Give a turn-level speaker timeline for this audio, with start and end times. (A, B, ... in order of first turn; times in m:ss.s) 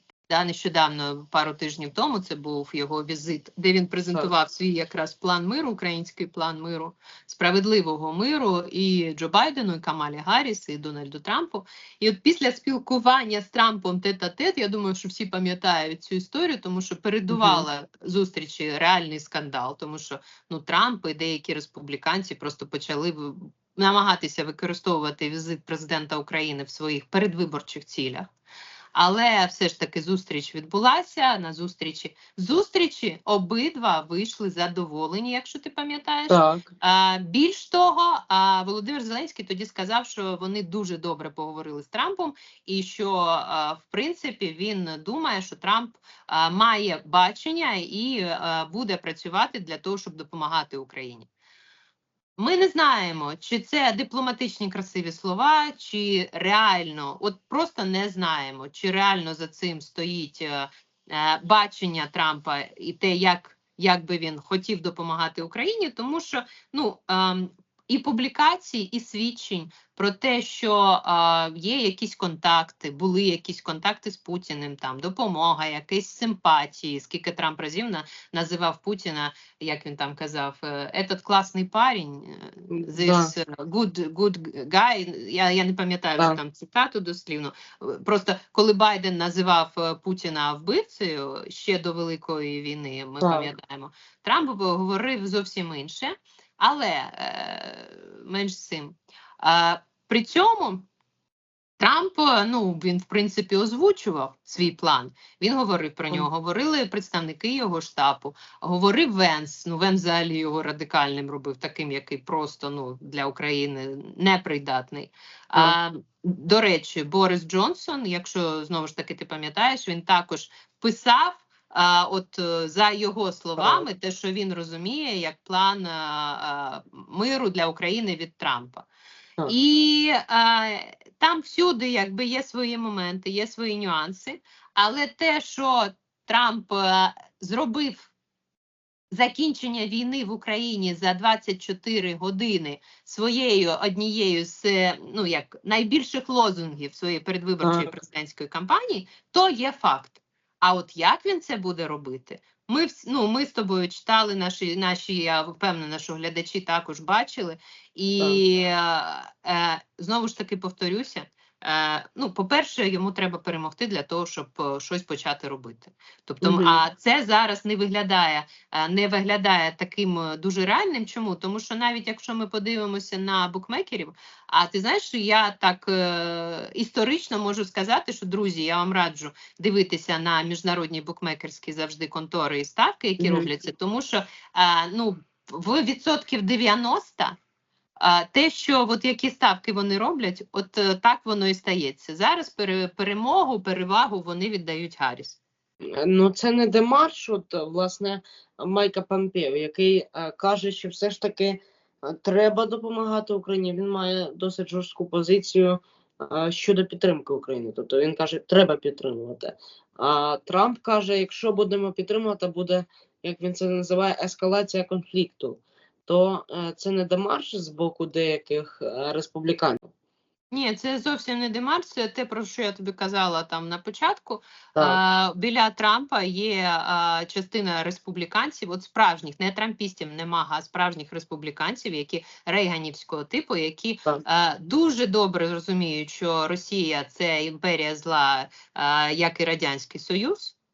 0:00.3-0:28.2 A
0:17.3-0:17.6 B
0:28.9-0:51.3 A
0:36.3-0:36.6 B
0:52.4-1:40.9 A
1:22.7-1:23.3 B
1:33.2-1:33.5 B
1:41.8-2:08.8 A
2:03.6-2:03.9 B
2:09.4-2:18.1 A
2:19.1-3:07.4 A
2:27.6-2:27.9 B
2:46.4-2:46.8 B
3:03.2-3:03.5 B
3:08.0-3:15.4 A
3:15.8-3:39.9 B
3:40.5-4:00.5 A